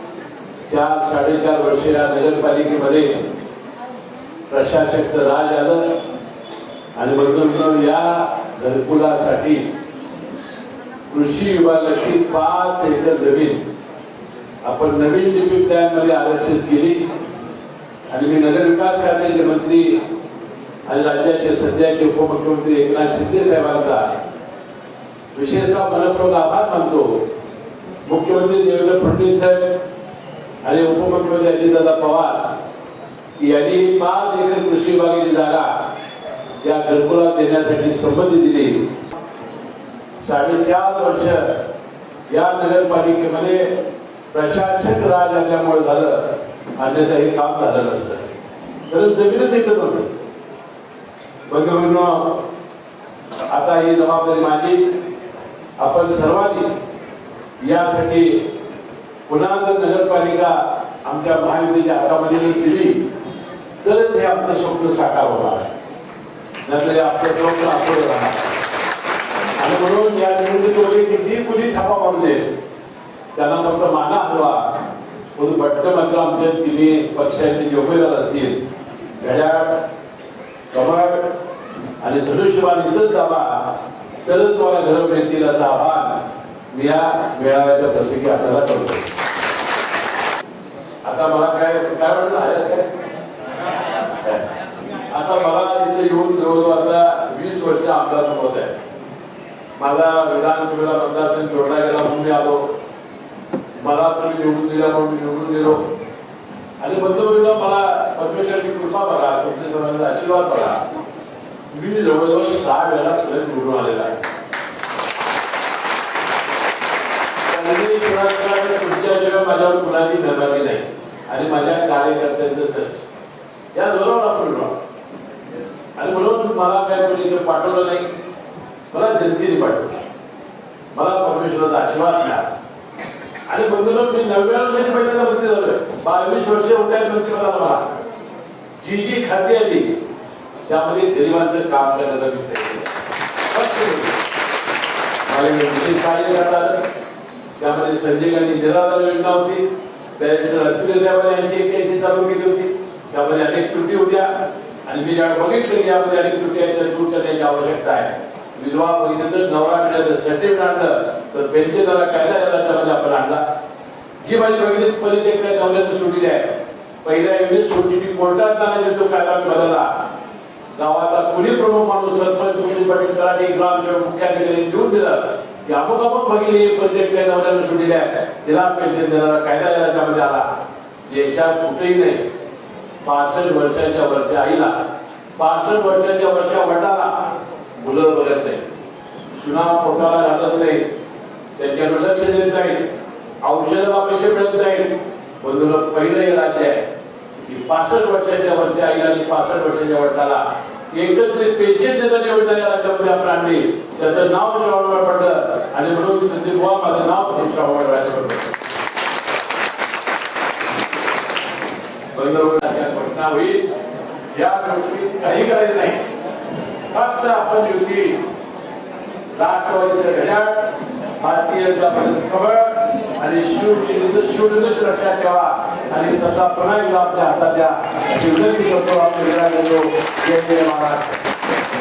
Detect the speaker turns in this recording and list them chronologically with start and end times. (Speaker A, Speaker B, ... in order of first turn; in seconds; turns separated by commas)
Speaker A: 0.7-3.2, Speaker A: 4.5-5.9, Speaker A: 7.0-9.7, Speaker A: 11.1-13.6, Speaker A: 14.6-17.0, Speaker A: 18.1-20.0, Speaker A: 20.9-24.2, Speaker A: 25.3-27.2, Speaker A: 28.0-29.8, Speaker A: 30.6-32.5, Speaker A: 33.4-35.7, Speaker A: 36.6-38.8, Speaker A: 40.2-41.4, Speaker A: 42.3-43.7, Speaker A: 44.3-46.2, Speaker A: 46.8-48.3, Speaker A: 48.9-50.1, Speaker A: 51.5-52.4, Speaker A: 53.5-54.9, Speaker A: 55.8-56.7, Speaker A: 57.6-58.4, Speaker A: 59.3-63.0, Speaker A: 63.8-65.7, Speaker A: 66.6-68.5, Speaker A: 69.6-72.5, Speaker A: 73.3-74.6, Speaker A: 75.3-78.6, Speaker A: 79.2-79.8, Speaker A: 80.7-81.3, Speaker A: 82.0-86.2, Speaker A: 86.7-89.1, Speaker A: 91.0-92.9, Speaker A: 95.1-98.7, Speaker A: 99.8-102.7, Speaker A: 103.8-105.8, Speaker A: 106.8-110.8, Speaker A: 111.7-114.2, Speaker A: 117.4-123.0, Speaker A: 123.7-124.8, Speaker A: 126.0-128.1, Speaker A: 128.9-130.0, Speaker A: 130.9-132.4, Speaker A: 133.5-137.8, Speaker A: 138.8-139.9, Speaker A: 140.6-142.9, Speaker A: 143.4-144.2, Speaker A: 145.2-146.8, Speaker A: 147.6-163.4, Speaker A: 164.2-166.5, Speaker A: 167.0-169.9, Speaker A: 170.7-180.4, Speaker A: 181.1-182.2, Speaker A: 183.0-184.7, Speaker A: 185.3-187.1, Speaker A: 187.8-188.6, Speaker A: 189.3-190.8, Speaker A: 191.6-192.9, Speaker A: 193.4-196.8, Speaker A: 197.3-208.6, Speaker A: 212.1-213.7, Speaker A: 214.3-216.0, Speaker A: 216.9-218.2, Speaker A: 219.3-231.2